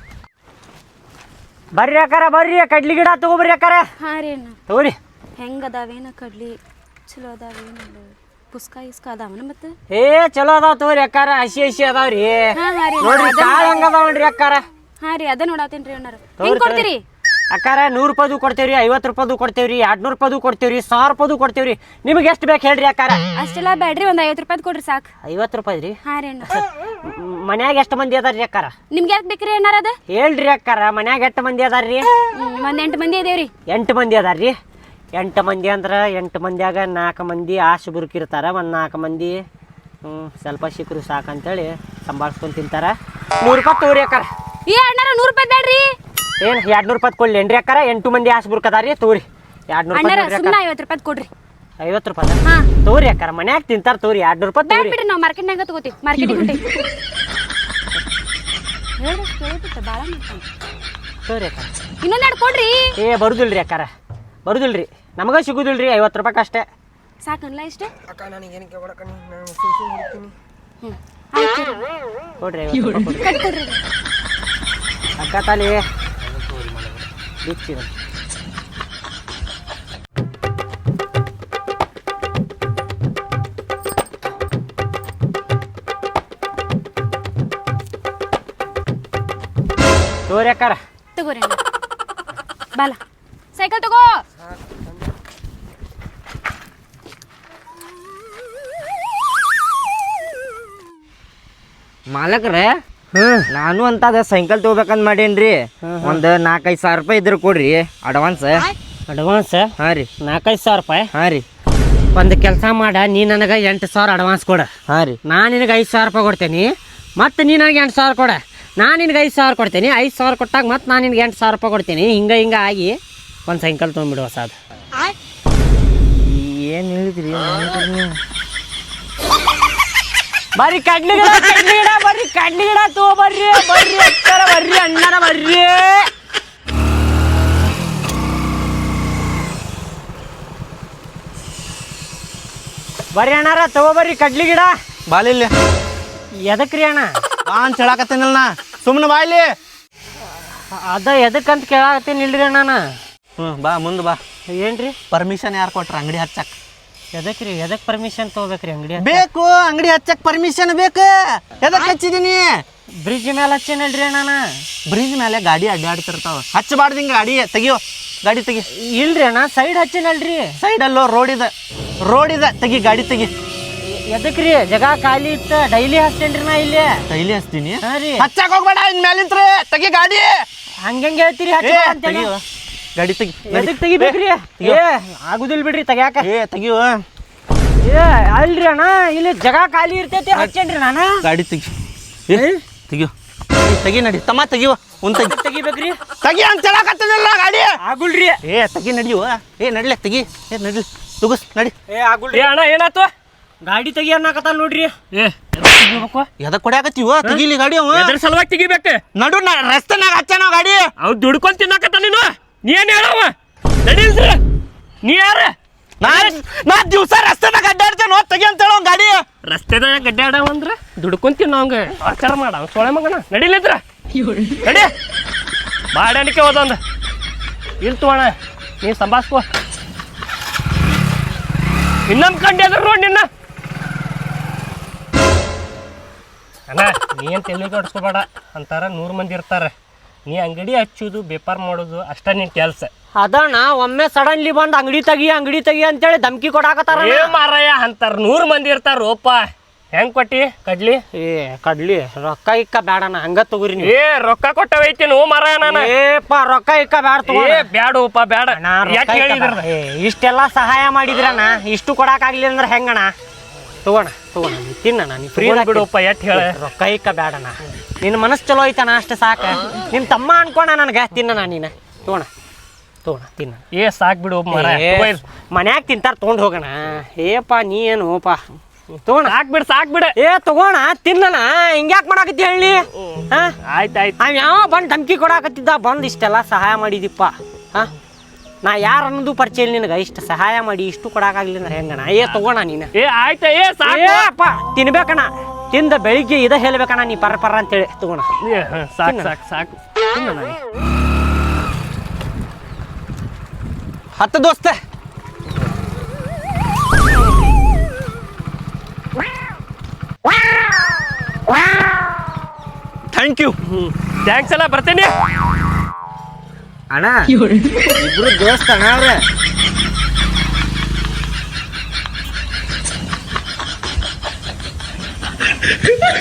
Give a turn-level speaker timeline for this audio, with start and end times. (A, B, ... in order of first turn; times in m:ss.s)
0:01.7-0:03.8 A
0:04.0-0:04.6 B
0:04.7-0:05.0 A
0:05.4-0:06.6 B
0:07.1-0:09.7 B
0:09.9-0:14.6 A
0:12.5-0:13.9 B
0:15.0-0:17.0 B
0:16.4-0:16.9 A
0:17.5-0:23.2 A
0:23.3-0:25.1 B
0:25.2-0:26.0 A
0:26.0-0:26.6 B
0:27.0-0:28.7 A
0:28.9-0:30.0 B
0:30.1-0:32.1 A
0:32.3-0:33.5 B
0:33.7-0:34.5 A
0:35.2-0:39.4 A
0:40.0-0:44.3 A
0:44.7-0:45.8 B
0:46.4-0:50.6 A
0:49.9-0:51.3 B
0:51.8-0:55.0 A
0:54.7-0:56.6 B
0:59.0-1:00.4 B
1:01.2-1:01.7 A
1:02.0-1:02.9 B
1:03.0-1:03.9 A
1:04.4-1:06.6 A
1:07.2-1:07.9 B
1:08.4-1:10.2 C
1:10.8-1:11.8 B
1:12.4-1:13.3 A
1:13.2-1:13.8 B
1:15.2-1:15.8 A
1:17.4-1:17.9 A
1:30.3-1:30.8 A
1:31.2-1:31.6 B
1:33.6-1:34.1 B
1:42.1-1:42.8 D
1:43.1-1:43.5 A
1:43.5-1:48.7 D
1:45.8-1:46.2 A
1:49.1-1:51.1 A
1:49.8-1:50.1 D
1:51.1-1:51.4 D
1:52.1-1:54.7 A
1:54.9-1:55.2 D
1:55.2-2:04.5 A
2:06.2-2:08.2 D
2:10.6-2:16.1 A
2:23.1-2:24.7 A
2:25.1-2:25.5 E
2:26.3-2:27.1 A
2:27.5-2:29.5 E
2:30.7-2:32.8 A
2:33.4-2:34.2 E
2:34.5-2:35.0 A
2:35.1-2:36.5 E
2:37.1-2:39.2 A
2:39.0-2:42.6 E
2:41.7-2:42.0 A
2:43.0-2:44.6 A
2:44.9-2:48.7 E
2:48.7-2:50.6 A
2:50.6-2:51.5 E
2:52.0-2:53.3 E
2:53.8-2:57.0 A
2:57.1-3:00.4 E
2:57.8-2:58.3 A
3:00.8-3:02.3 A
3:01.6-3:02.4 E
3:03.0-3:04.8 E
3:03.5-3:06.3 A
3:06.2-3:07.0 E
3:07.8-3:11.2 A
3:11.2-3:11.7 E
3:12.3-3:15.3 E
3:12.3-3:12.6 A
3:15.1-3:16.0 A
3:16.2-3:17.7 E
3:17.8-3:18.4 A
3:18.4-3:21.7 E
3:21.9-3:22.5 A
3:22.3-3:23.1 F
3:23.6-3:25.0 A
3:25.1-3:26.0 F
3:25.7-3:26.3 A
3:26.4-3:28.1 E
3:27.9-3:29.0 F
3:29.2-3:30.9 E
3:31.0-3:34.4 F
3:35.0-3:36.4 F
3:36.0-3:39.2 E
3:39.4-3:43.8 F
3:44.6-3:44.9 F
3:45.9-3:46.8 F
3:47.8-3:49.4 F
3:52.1-3:53.3 F
3:56.7-3:59.7 F
4:00.3-4:02.9 F
4:03.2-4:07.4 A
4:06.9-4:11.0 F
4:11.1-4:13.9 A
4:13.8-4:15.9 F
4:15.6-4:17.7 A
4:17.3-4:19.6 F
4:18.5-4:23.1 A
4:23.8-4:32.3 A
4:25.4-4:26.5 F
4:33.0-4:33.6 A
4:33.7-4:35.2 F
4:34.5-4:38.4 A
4:39.0-4:39.4 A
4:39.2-4:40.1 F
4:40.1-4:43.5 A
4:43.7-4:44.1 F
4:44.2-4:47.9 A
4:48.6-4:52.9 A
4:52.9-4:54.3 F
4:53.8-4:58.3 A
4:58.4-4:59.8 F
4:59.0-4:59.3 A
5:00.1-5:00.6 A
5:04.2-5:04.7 E
5:04.3-5:04.7 C
5:13.1-5:13.5 E
5:13.7-5:15.1 F
5:16.9-5:17.3 D
5:18.0-5:19.2 D